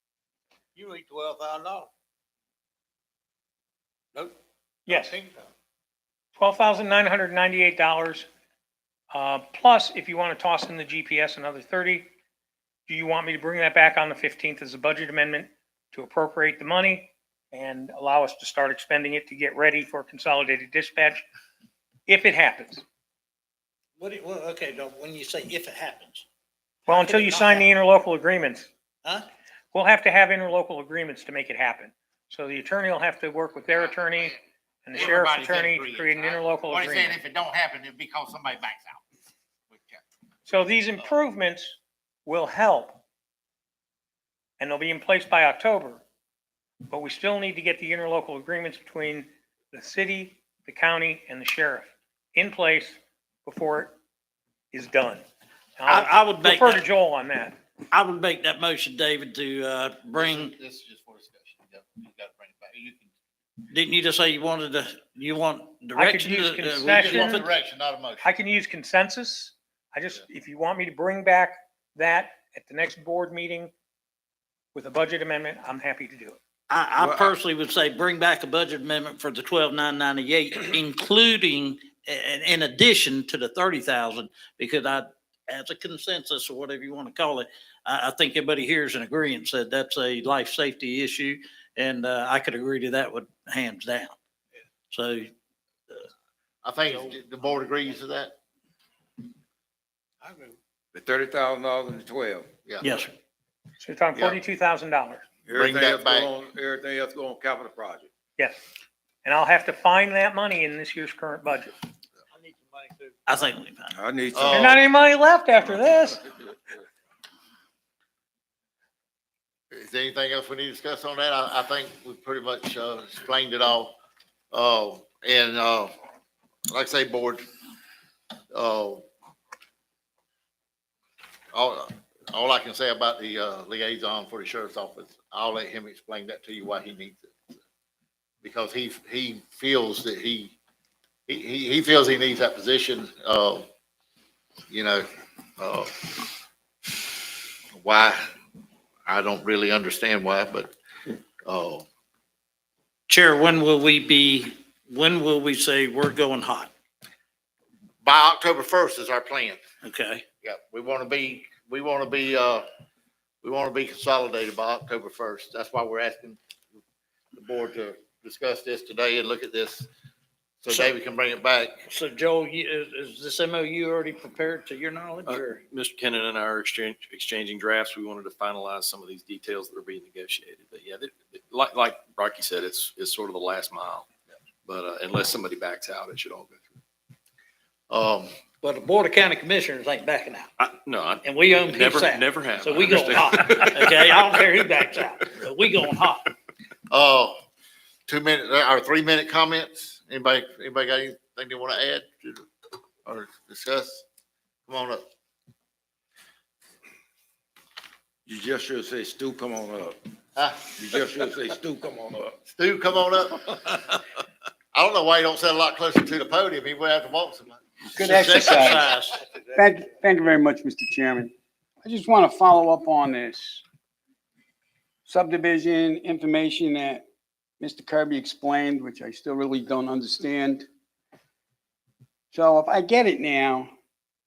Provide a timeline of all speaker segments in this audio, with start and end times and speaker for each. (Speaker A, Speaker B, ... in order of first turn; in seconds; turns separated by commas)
Speaker A: 0.7-1.9, Speaker B: 4.9-5.1, Speaker A: 4.9-5.5, Speaker B: 6.3-8.3, Speaker B: 9.1-12.1, Speaker B: 12.9-21.2, Speaker B: 22.1-22.8, Speaker C: 24.0-26.2, Speaker C: 26.9-27.7, Speaker B: 26.9-28.7, Speaker B: 29.7-37.2, Speaker D: 34.0-34.4, Speaker D: 34.9-39.0, Speaker D: 39.7-40.0, Speaker B: 40.5-43.0, Speaker B: 44.6-46.0, Speaker B: 46.9-53.9, Speaker B: 54.7-55.2, Speaker B: 55.8-57.5, Speaker C: 55.9-56.9, Speaker C: 57.9-60.5, Speaker D: 60.1-63.1, Speaker C: 63.7-67.4, Speaker B: 65.9-67.4, Speaker D: 66.8-68.2, Speaker B: 68.2-73.7, Speaker B: 74.7-76.4, Speaker C: 76.7-94.1, Speaker E: 77.0-77.4, Speaker C: 94.9-95.3, Speaker D: 96.6-98.3, Speaker A: 100.2-100.5, Speaker E: 100.9-102.5, Speaker D: 102.7-103.0, Speaker C: 102.8-103.1, Speaker B: 103.8-105.2, Speaker D: 104.1-104.4, Speaker E: 105.5-108.1, Speaker D: 105.5-106.3, Speaker B: 109.2-111.8, Speaker A: 112.3-113.2, Speaker C: 113.3-113.9, Speaker E: 113.9-114.8, Speaker D: 114.3-114.8, Speaker B: 114.5-116.2, Speaker D: 119.7-123.9, Speaker D: 124.5-125.9, Speaker D: 126.7-127.4, Speaker D: 128.5-129.1, Speaker D: 131.5-137.3, Speaker D: 138.4-140.5, Speaker D: 141.3-143.7, Speaker D: 144.7-145.0, Speaker D: 145.6-146.1, Speaker D: 147.8-148.2, Speaker D: 149.1-150.7, Speaker D: 151.4-151.8, Speaker C: 153.1-156.7, Speaker D: 158.0-159.6, Speaker C: 159.8-160.2, Speaker D: 160.4-162.7, Speaker D: 163.4-166.4, Speaker D: 167.3-169.9, Speaker D: 170.6-171.8, Speaker C: 171.8-175.6, Speaker F: 175.2-184.1, Speaker F: 184.7-186.8, Speaker D: 187.9-188.3, Speaker C: 188.6-190.5, Speaker F: 190.6-194.5, Speaker C: 191.2-196.3, Speaker D: 196.9-197.3, Speaker D: 198.1-202.4, Speaker D: 203.1-204.0, Speaker D: 204.7-205.0, Speaker E: 208.2-210.0, Speaker D: 210.3-210.7, Speaker E: 210.8-212.3, Speaker D: 212.5-213.6, Speaker D: 214.7-219.0, Speaker G: 217.9-218.9, Speaker C: 218.0-219.2, Speaker G: 219.5-221.3, Speaker G: 221.8-223.6, Speaker G: 225.1-227.0, Speaker G: 227.6-230.7, Speaker G: 232.3-233.7